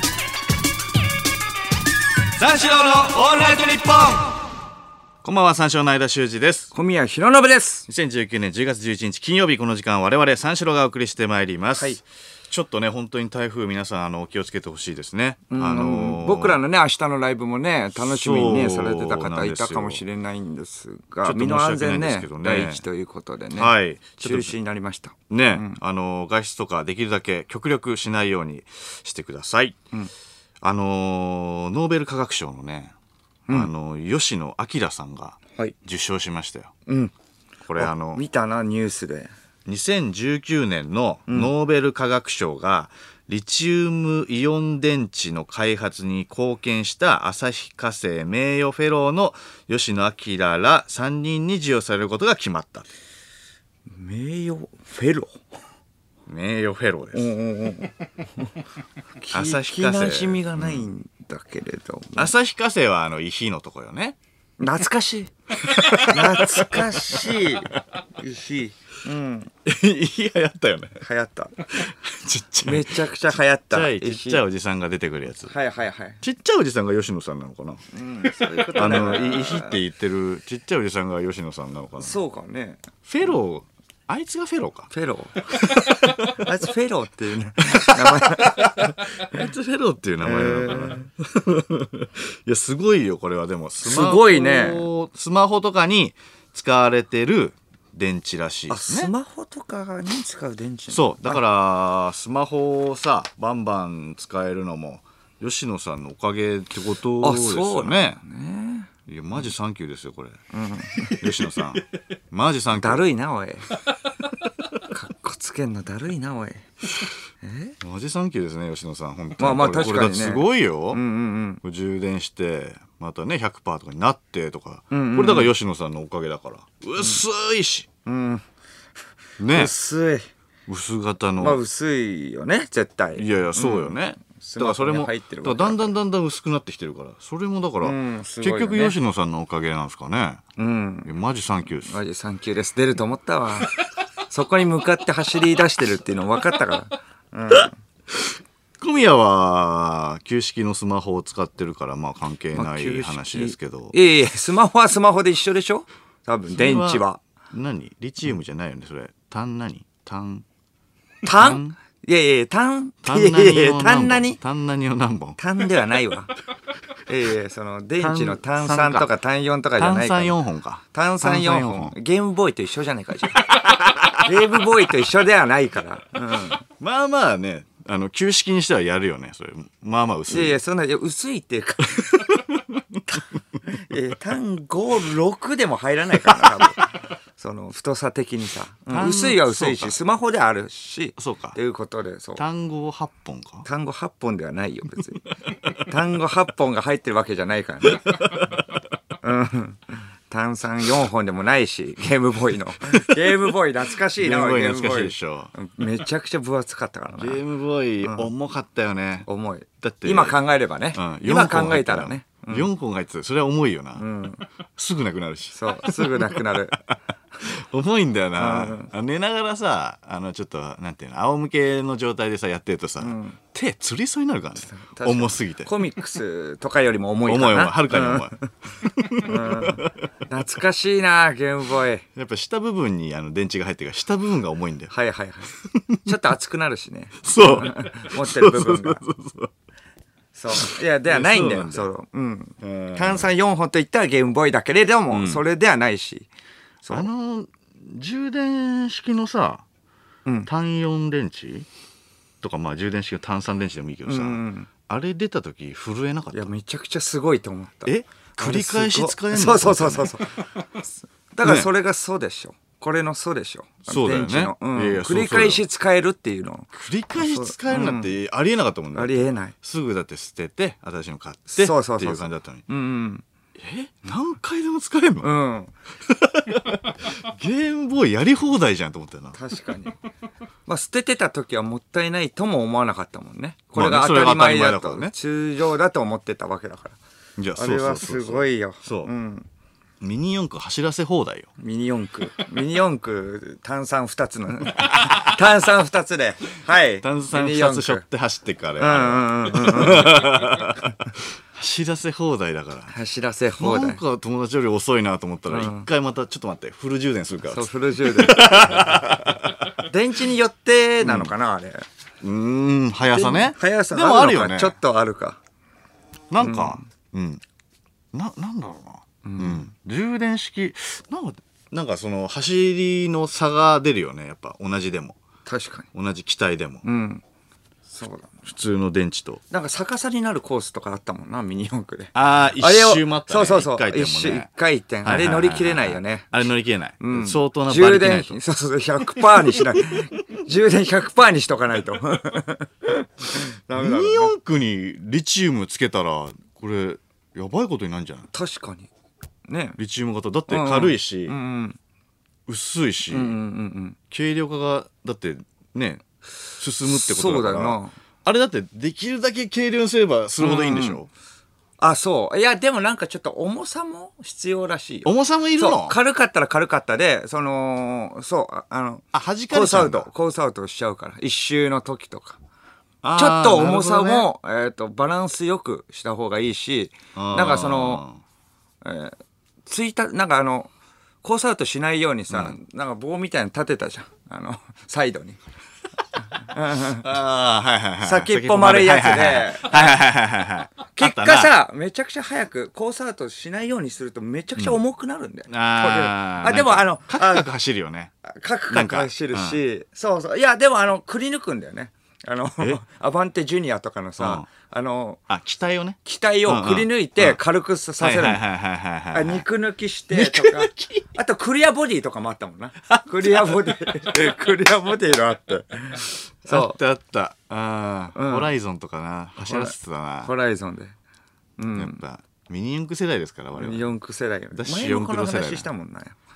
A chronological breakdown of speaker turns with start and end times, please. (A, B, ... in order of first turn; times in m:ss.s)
0:02.3-0:04.4 A
0:05.2-0:06.7 A
0:06.7-0:07.9 B
0:07.9-0:16.6 A
0:15.5-0:25.8 B
0:18.0-0:20.0 A
0:21.2-0:22.8 A
0:23.5-0:24.5 A
0:25.3-0:29.8 A
0:30.6-0:32.9 A
0:33.5-0:36.7 A
0:36.9-0:37.1 B
0:37.7-0:38.2 A
0:37.8-0:39.3 B
0:39.6-0:52.9 A
0:53.9-0:55.4 B
0:56.3-0:57.3 A
0:57.1-0:57.9 B
0:59.2-1:02.3 B
0:59.3-1:00.9 A
1:02.2-1:04.2 A
1:04.6-1:05.3 B
1:05.6-1:07.5 A
1:05.9-1:09.5 B
1:09.6-1:11.0 A
1:11.0-1:11.6 B
1:11.7-1:13.0 A
1:12.6-1:14.4 B
1:13.7-1:15.5 A
1:15.4-1:16.2 B
1:16.2-1:17.8 A
1:17.9-1:19.8 B
1:18.6-1:22.2 A
1:22.0-1:22.8 B
1:23.0-1:24.9 A
1:24.9-1:29.3 B
1:25.5-1:26.3 A
1:27.7-1:39.1 A
1:30.2-1:31.1 B
1:33.8-1:34.8 B
1:38.7-1:41.4 B
1:40.9-1:48.2 A
1:47.2-1:48.9 B
1:49.1-1:50.4 A
1:50.5-1:51.2 B
1:51.1-1:53.0 A
1:52.7-1:53.7 B
1:54.9-1:56.7 B
1:57.4-1:57.8 B
1:57.8-2:01.0 A
1:59.4-2:01.6 B
2:01.6-2:07.9 A
2:04.9-2:05.5 B
2:08.0-2:08.4 B
2:09.4-2:09.7 A
2:09.5-2:10.3 B
2:10.7-2:11.6 A
2:11.4-2:15.9 B
2:13.2-2:20.4 A
2:17.8-2:19.0 B
2:20.6-2:21.1 B
2:21.0-2:22.0 A
2:21.8-2:27.8 B
2:28.1-2:34.0 A
2:32.5-2:37.2 B
2:36.5-2:40.4 A
2:41.2-2:44.4 B
2:41.3-2:41.7 A
2:43.0-2:45.4 A
2:45.4-2:46.3 B
2:47.1-2:50.4 B
2:48.0-2:49.1 A
2:49.8-2:51.9 A
2:50.9-2:53.6 B
2:53.5-2:54.2 A
2:54.1-2:56.6 B
2:56.8-3:00.6 A
3:00.3-3:02.1 B
3:02.0-3:02.8 A
3:03.7-3:12.4 B
3:08.9-3:10.0 A
3:11.2-3:11.6 A
3:12.4-3:13.6 A
3:13.6-3:18.3 B
3:18.1-3:18.4 A
3:19.2-3:27.4 B
3:22.9-3:23.6 A
3:24.2-3:25.5 A
3:27.2-3:29.3 A
3:28.0-3:28.3 B
3:29.2-3:32.7 B
3:29.8-3:30.4 A
3:30.9-3:34.0 A
3:34.0-3:34.4 B
3:34.8-3:45.7 A
3:35.5-3:36.8 B
3:38.4-3:38.9 B
3:43.0-3:43.4 B
3:44.6-3:48.5 B
3:47.2-3:49.9 A
3:49.1-3:52.0 B
3:52.2-3:54.9 A
3:54.9-3:59.0 B
3:55.7-3:56.0 A
3:57.2-3:59.5 A
4:00.3-4:06.3 B
4:00.5-4:01.9 A
4:02.6-4:03.3 A
4:05.1-4:05.4 A
4:06.8-4:07.1 B
4:06.9-4:09.6 A
4:10.4-4:11.7 A
4:12.4-4:16.5 A
4:14.1-4:14.7 B
4:16.3-4:20.4 B
4:17.8-4:20.2 A
4:21.3-4:28.2 B
4:21.4-4:21.7 A
4:23.9-4:25.6 A
4:26.7-4:32.6 A
4:28.9-4:29.5 B
4:31.5-4:33.2 B
4:33.6-4:35.3 A
4:35.2-4:35.7 B
4:36.1-4:39.4 A
4:39.3-4:40.0 B
4:40.6-4:47.0 B
4:43.7-4:45.1 A
4:47.4-4:49.1 A
4:47.6-4:49.5 B
4:50.0-4:51.5 A
4:51.6-4:58.0 B
4:57.0-5:01.0 A
4:58.8-5:00.3 B
5:01.5-5:02.9 A
5:02.9-5:04.0 B
5:03.6-5:09.7 A
5:05.5-5:05.8 B
5:07.5-5:09.1 B
5:09.8-5:11.8 B
5:11.0-5:11.3 A
5:12.2-5:14.7 A
5:13.1-5:15.4 B
5:16.3-5:17.4 A
5:16.4-5:16.8 B
5:18.1-5:25.2 A
5:19.2-5:19.7 B
5:25.4-5:25.9 B
5:25.9-5:26.8 A
5:26.8-5:27.2 B
5:27.9-5:28.4 B
5:28.4-5:29.4 A
5:29.5-5:36.5 B
5:32.1-5:34.5 A
5:35.0-5:38.4 A
5:37.0-5:44.3 B
5:39.3-5:40.0 A
5:43.7-5:48.3 A
5:48.3-5:48.9 B
5:49.5-5:49.8 B
5:49.8-5:51.4 A
5:50.5-5:51.8 B
5:52.5-5:53.4 A
5:53.1-5:54.0 B
5:54.1-5:56.0 A
5:56.6-6:01.1 A
5:56.8-5:57.9 B
6:00.4-6:01.0 B
6:01.8-6:12.4 B
6:05.0-6:06.0 A
6:09.1-6:10.1 A
6:13.0-6:14.3 A
6:13.1-6:18.0 B
6:17.1-6:18.2 A
6:18.8-6:20.7 B
6:21.2-6:25.4 B
6:22.3-6:22.6 A
6:26.3-6:27.0 B
6:26.8-6:31.5 A
6:28.0-6:30.0 B
6:30.9-6:37.5 B
6:35.5-6:38.1 A
6:38.3-6:45.2 B
6:38.7-6:39.6 A
6:44.2-6:44.5 A
6:45.3-6:47.4 A
6:46.0-6:48.4 B
6:48.0-6:49.4 A
6:49.1-6:56.8 B
6:50.1-6:51.0 A
6:53.2-6:53.6 A
6:56.4-7:00.3 A
6:58.1-6:58.5 B
6:59.4-7:00.9 B
7:01.6-7:02.0 B
7:01.7-7:03.9 A
7:03.6-7:06.2 B
7:04.5-7:05.7 A